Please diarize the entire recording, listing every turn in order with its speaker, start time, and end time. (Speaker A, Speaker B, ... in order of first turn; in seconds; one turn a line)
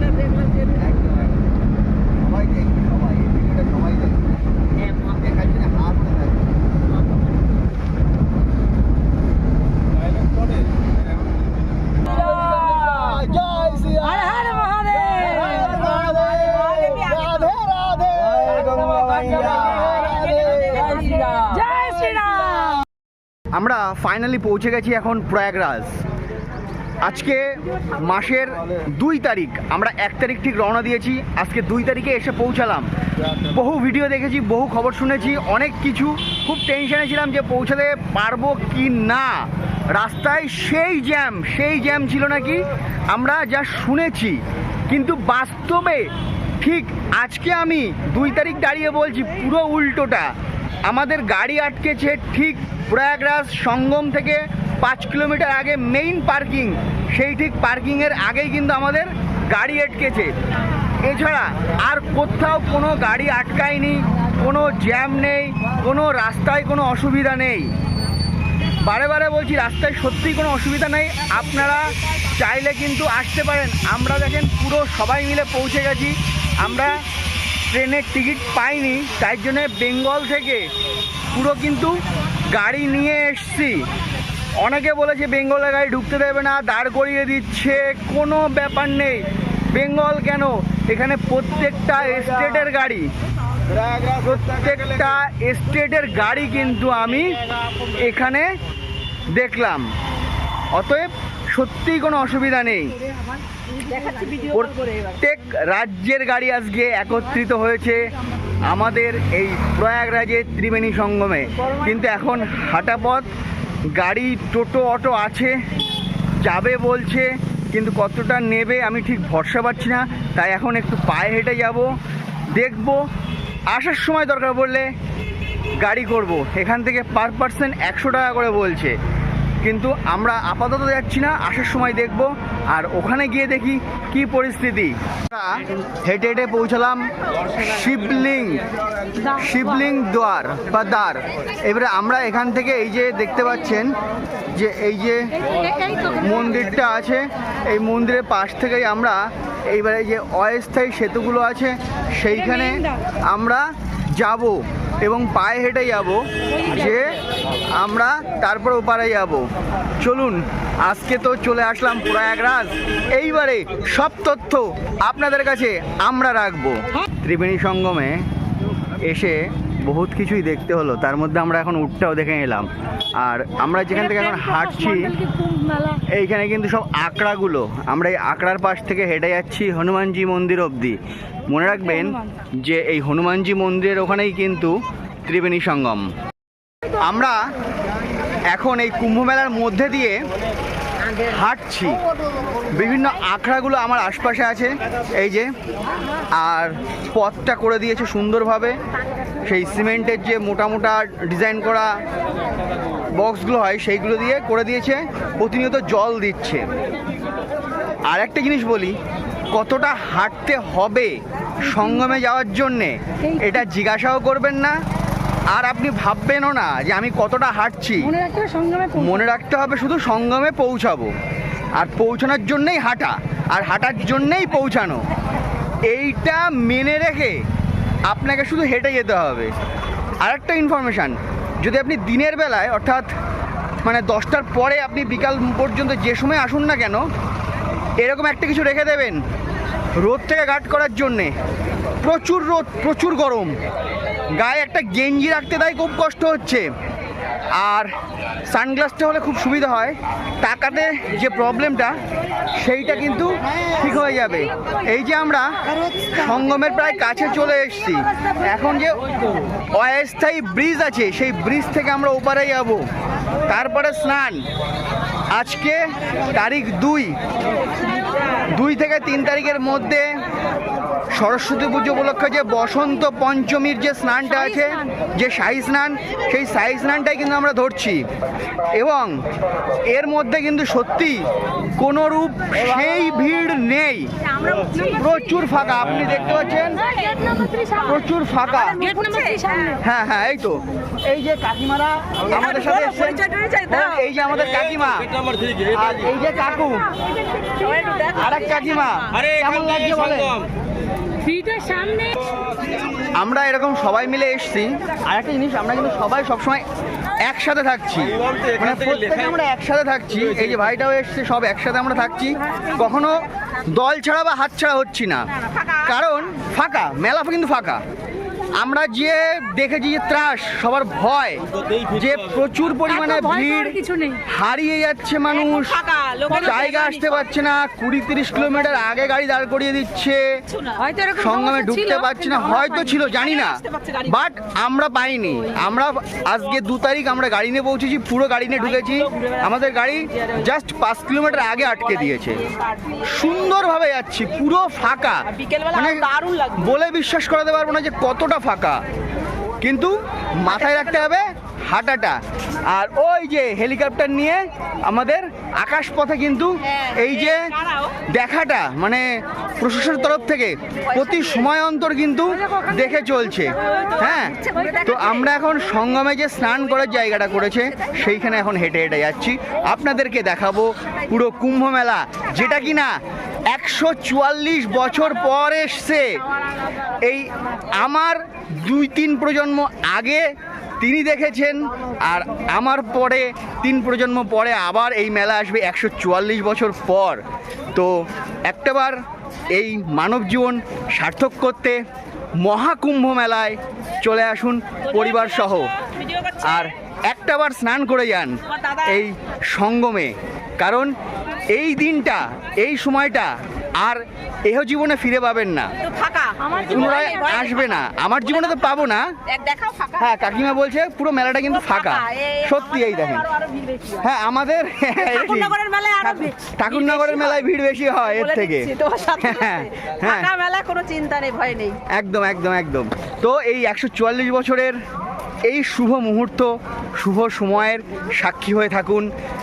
Speaker A: 0.7-1.4
Speaker A: 2.2-4.3
Speaker A: 5.0-6.5
Speaker A: 12.2-21.0
Speaker B: 14.5-15.1
Speaker C: 20.8-21.2
Speaker B: 21.4-22.8
Speaker A: 23.6-26.0
Speaker A: 27.0-32.9
Speaker A: 33.5-46.1
Speaker A: 46.6-50.3
Speaker A: 50.9-60.3
Speaker A: 61.0-67.7
Speaker A: 68.8-77.0
Speaker A: 77.7-80.7
Speaker A: 81.3-83.9
Speaker A: 84.6-93.1
Speaker A: 94.1-97.3
Speaker A: 97.9-98.5
Speaker A: 99.3-99.8
Speaker A: 100.7-102.9
Speaker C: 104.0-104.4
Speaker A: 104.5-108.0
Speaker A: 108.7-113.3
Speaker A: 114.0-115.6
Speaker A: 116.4-122.0
Speaker A: 122.6-123.0
Speaker A: 123.7-124.9
Speaker A: 125.8-128.9
Speaker A: 129.6-138.6
Speaker A: 139.3-143.9
Speaker A: 144.6-145.3
Speaker A: 145.9-149.2
Speaker A: 149.7-153.6
Speaker A: 154.2-157.2
Speaker A: 157.8-159.4
Speaker A: 160.0-168.2
Speaker A: 169.1-172.7
Speaker A: 173.2-175.2
Speaker B: 175.3-176.0
Speaker A: 176.1-181.0
Speaker A: 181.5-184.7
Speaker A: 185.3-186.1
Speaker A: 187.0-187.4
Speaker A: 188.5-190.2
Speaker A: 191.2-192.0
Speaker A: 192.7-195.5
Speaker A: 196.4-198.8
Speaker A: 199.5-201.9
Speaker A: 203.2-206.7
Speaker A: 208.1-208.9
Speaker A: 209.5-214.8
Speaker A: 215.5-218.2
Speaker B: 218.2-218.9
Speaker A: 218.9-221.1
Speaker A: 221.8-225.0
Speaker A: 225.9-227.4
Speaker A: 228.1-229.5
Speaker A: 230.2-233.1
Speaker A: 233.8-237.0
Speaker A: 238.0-239.2
Speaker A: 240.0-241.3
Speaker A: 242.0-243.5
Speaker A: 244.4-246.7
Speaker A: 247.6-247.9
Speaker A: 248.5-252.0
Speaker A: 252.6-255.5
Speaker A: 256.1-259.0
Speaker A: 259.8-262.8
Speaker A: 263.5-264.4
Speaker A: 265.4-267.2
Speaker A: 268.5-270.1
Speaker A: 271.1-278.1
Speaker A: 278.7-279.1
Speaker A: 279.9-281.3
Speaker A: 281.8-284.1
Speaker A: 284.7-286.8
Speaker A: 287.7-289.0
Speaker C: 289.0-289.8
Speaker A: 289.8-295.1
Speaker A: 295.7-296.9
Speaker C: 297.5-298.0
Speaker A: 298.1-300.4
Speaker B: 301.3-302.1
Speaker A: 303.2-306.6
Speaker A: 307.2-315.3
Speaker A: 315.8-317.8
Speaker A: 318.6-330.2
Speaker B: 323.8-324.2
Speaker A: 331.1-342.4
Speaker A: 343.0-348.8
Speaker A: 349.6-352.2
Speaker A: 352.7-357.5
Speaker A: 358.1-359.1
Speaker A: 359.6-372.9
Speaker A: 373.5-376.2
Speaker A: 377.1-380.3
Speaker A: 380.8-387.2
Speaker A: 388.5-389.0
Speaker A: 389.5-391.8
Speaker A: 392.4-395.7
Speaker A: 396.4-400.9
Speaker A: 401.5-405.7
Speaker C: 406.0-406.6
Speaker A: 406.6-409.1
Speaker C: 409.4-409.9
Speaker A: 410.0-413.3
Speaker C: 413.6-413.8
Speaker A: 414.0-420.3
Speaker C: 415.4-416.0
Speaker C: 418.7-419.2
Speaker C: 420.1-421.8
Speaker A: 421.9-424.8
Speaker A: 425.5-429.1